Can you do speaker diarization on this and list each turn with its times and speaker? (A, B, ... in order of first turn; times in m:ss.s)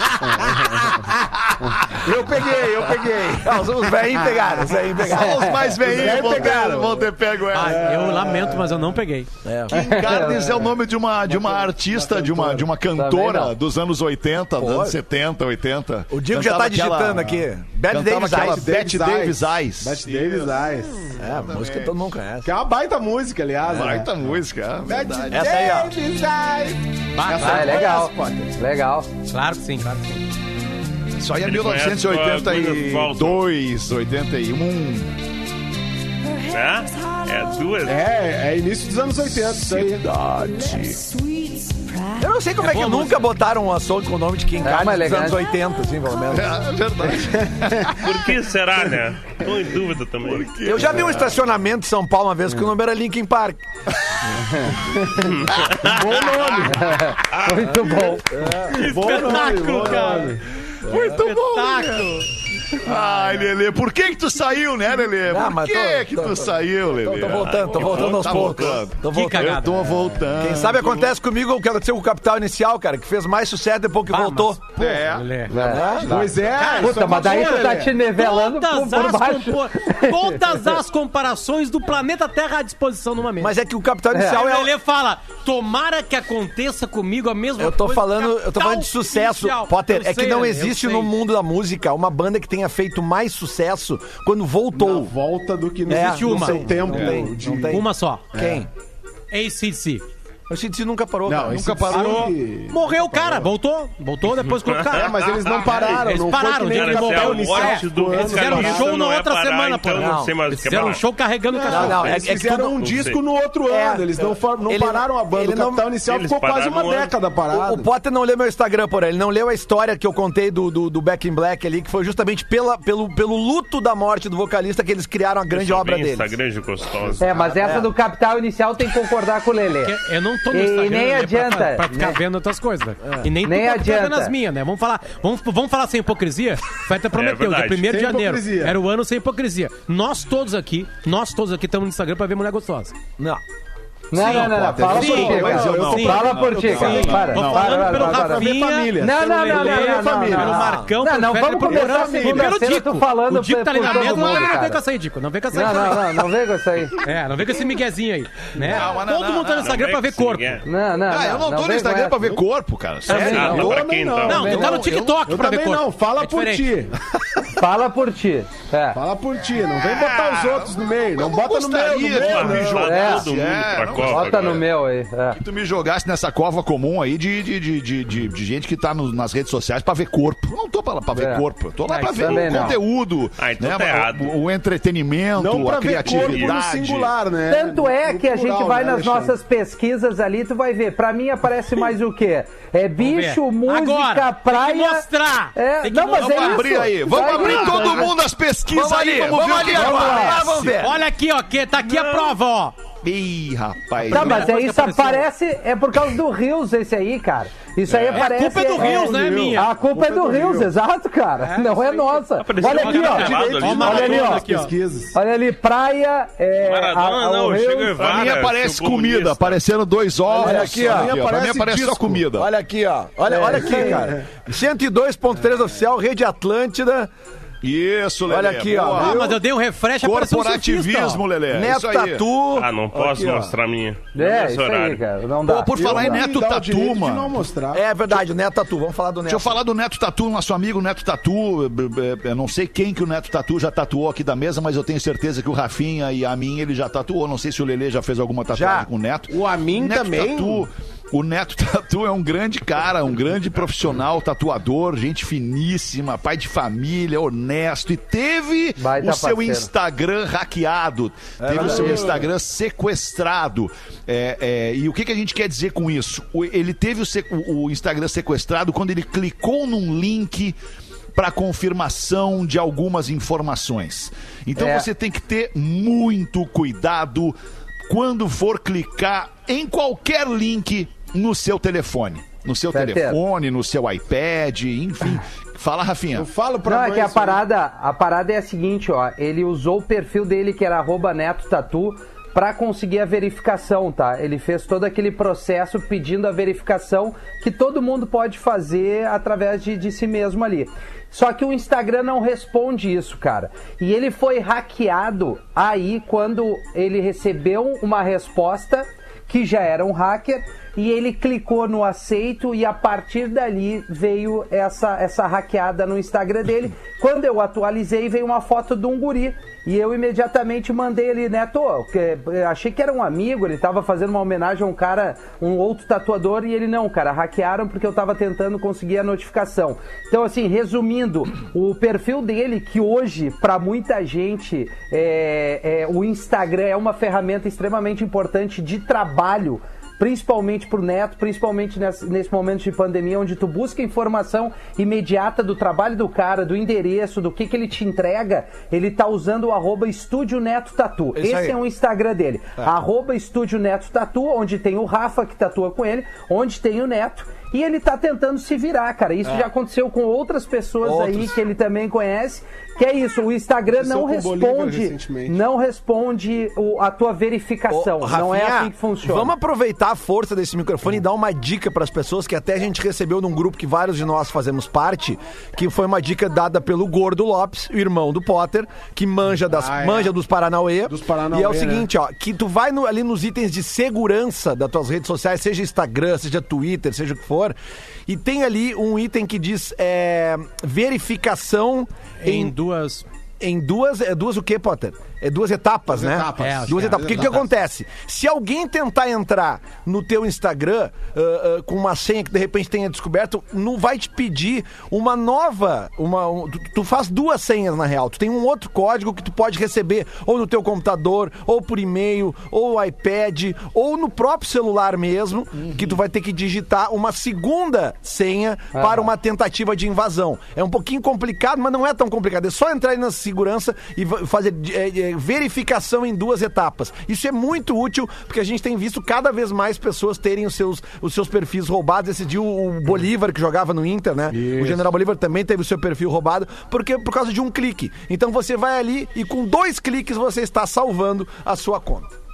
0:00.2-0:02.6 A
0:02.0-0:03.6 B
0:03.4-0:05.7 C
0:04.9-0:08.3 A
0:05.2-0:05.6 D
0:05.8-0:07.1 B
0:07.5-0:09.3 E
0:07.8-0:08.6 B
0:09.4-0:09.9 C
0:09.7-0:22.0 A
0:09.7-0:10.6 D
0:11.3-0:12.7 B
0:13.0-0:13.5 D
0:14.6-0:15.0 C
0:16.1-0:18.7 C
0:18.4-0:21.2 B
0:21.2-0:22.5 C
0:22.4-0:24.1 B
0:23.6-0:25.4 A
0:24.8-0:28.6 B
0:25.3-0:25.9 C
0:27.2-0:27.8 E
0:27.4-0:29.1 D
0:29.3-0:30.2 E
0:31.2-0:35.2 A
0:31.4-0:33.4 F
0:36.4-0:38.0 F
0:37.8-0:40.0 B
0:39.5-0:41.1 A
0:42.2-0:46.6 C
0:42.6-0:43.2 E
0:44.6-0:45.4 D
0:46.3-0:48.3 A
0:48.0-0:50.5 F
0:50.2-0:51.4 A
0:50.6-0:53.6 C
0:55.0-0:55.2 D
0:55.4-0:56.0 F
0:55.6-0:56.8 A
0:55.8-0:56.8 B
0:56.7-0:58.4 D
0:57.3-0:57.9 F
0:58.3-0:58.9 C
0:58.7-1:00.4 E
0:58.7-1:00.4 B
1:00.8-1:02.2 A
1:00.9-1:01.2 C
1:00.9-1:02.3 E
1:02.7-1:11.1 A
1:02.9-1:03.5 E
1:05.2-1:09.6 C
1:07.4-1:08.8 F
1:09.0-1:10.0 E
1:10.4-1:15.0 C
1:14.1-1:23.6 E
1:14.8-1:16.6 A
1:15.5-1:15.8 D
1:15.5-1:16.3 C
1:16.0-1:17.9 B
1:16.8-1:20.8 D
1:23.4-1:24.7 C
1:24.2-1:31.1 E
1:27.6-1:35.1 C
1:34.8-1:38.6 B
1:35.9-1:38.7 C
1:35.9-1:36.8 E
1:36.9-1:37.2 A
1:37.7-1:38.3 E
1:39.3-1:40.0 E
1:40.5-1:42.0 C
1:41.3-1:43.5 B
1:41.4-1:42.4 A
1:41.9-1:52.2 E
1:44.3-1:46.0 F
1:44.9-1:48.9 B
1:46.6-1:51.1 F
1:50.0-1:50.3 C
1:51.5-1:57.9 B
1:51.7-1:53.0 C
1:52.8-1:53.2 F
1:53.7-1:55.9 C
1:56.0-1:57.2 F
1:57.5-2:06.3 C
2:05.5-2:07.3 F
2:07.2-2:10.0 D
2:07.2-2:07.9 C
2:09.8-2:23.0 E
2:10.5-2:12.2 D
2:13.4-2:14.3 D
2:17.1-2:17.8 F
2:17.8-2:18.8 B
2:24.1-2:28.5 D
2:24.2-2:36.3 E
2:24.2-2:27.6 A
2:24.2-2:30.8 B
2:29.0-2:34.8 D
2:30.4-2:30.9 C
2:31.6-2:32.5 B
2:34.2-2:34.5 A
2:35.5-2:37.0 D
2:37.0-2:40.6 E
2:38.6-2:39.8 A
2:39.6-2:40.7 F
2:40.6-2:42.4 D
2:41.1-2:43.8 A
2:43.1-2:43.6 E
2:43.1-2:44.8 D
2:43.2-2:44.6 F
2:43.2-2:44.6 B
2:44.2-2:46.8 E
2:44.4-2:45.2 A
2:45.2-2:47.0 B
2:47.5-2:49.0 D
2:48.9-2:52.8 B
2:49.6-2:54.6 A
2:52.1-2:54.6 F
2:52.8-2:53.3 D
2:54.0-2:55.4 D
2:55.4-3:07.2 A
3:01.1-3:01.4 D
3:01.9-3:02.7 E
3:02.2-3:02.8 D
3:03.4-3:04.4 F
3:05.4-3:09.4 B
3:06.0-3:06.6 F
3:07.5-3:18.1 D
3:13.0-3:18.0 E
3:16.1-3:20.9 A
3:18.7-3:21.0 C
3:19.7-3:20.4 B
3:19.8-3:20.3 D
3:20.7-3:22.8 E
3:23.0-3:24.5 A
3:24.0-3:25.3 E
3:24.1-3:34.4 D
3:27.9-3:28.3 A
3:28.2-3:29.7 E
3:28.7-3:30.7 B
3:31.4-3:34.7 E
3:32.4-3:34.3 F
3:33.0-3:35.2 B
3:35.1-3:38.0 D
3:36.6-3:39.6 F
3:38.0-3:42.5 A
3:40.3-3:42.3 B
3:40.4-3:41.2 C
3:42.3-3:47.1 C
3:43.3-3:44.0 D
3:43.4-3:44.2 B
3:47.6-3:49.4 A
3:48.3-3:49.2 C
3:49.0-3:51.2 E
3:49.0-3:49.3 B
3:50.0-3:52.3 A
3:51.5-3:53.5 C
3:52.5-3:55.0 F
3:54.1-3:56.2 D
3:55.5-3:57.4 A
3:55.8-3:57.8 B
3:57.7-3:59.6 C
3:59.3-4:30.6 A
4:08.5-4:08.9 C
4:09.3-4:10.7 B
4:18.8-4:19.7 D
4:21.4-4:22.3 C
4:21.5-4:22.2 B
4:31.2-4:37.4 A
4:34.6-4:34.9 D
4:37.9-4:46.3 A
4:42.7-4:43.2 D
4:46.2-4:47.4 B
4:46.7-6:09.3 D
5:51.2-5:51.6 C
5:59.2-5:59.5 C
6:00.8-6:01.4 C
6:03.7-6:05.4 B
6:07.7-6:27.6 C
6:19.5-6:20.1 B
6:20.9-6:21.9 B
6:28.1-6:32.6 C
6:32.2-6:33.0 E
6:33.4-7:22.1 C
6:35.9-6:37.3 B
6:36.4-6:37.4 E
6:58.7-6:59.1 D
7:14.4-7:14.8 B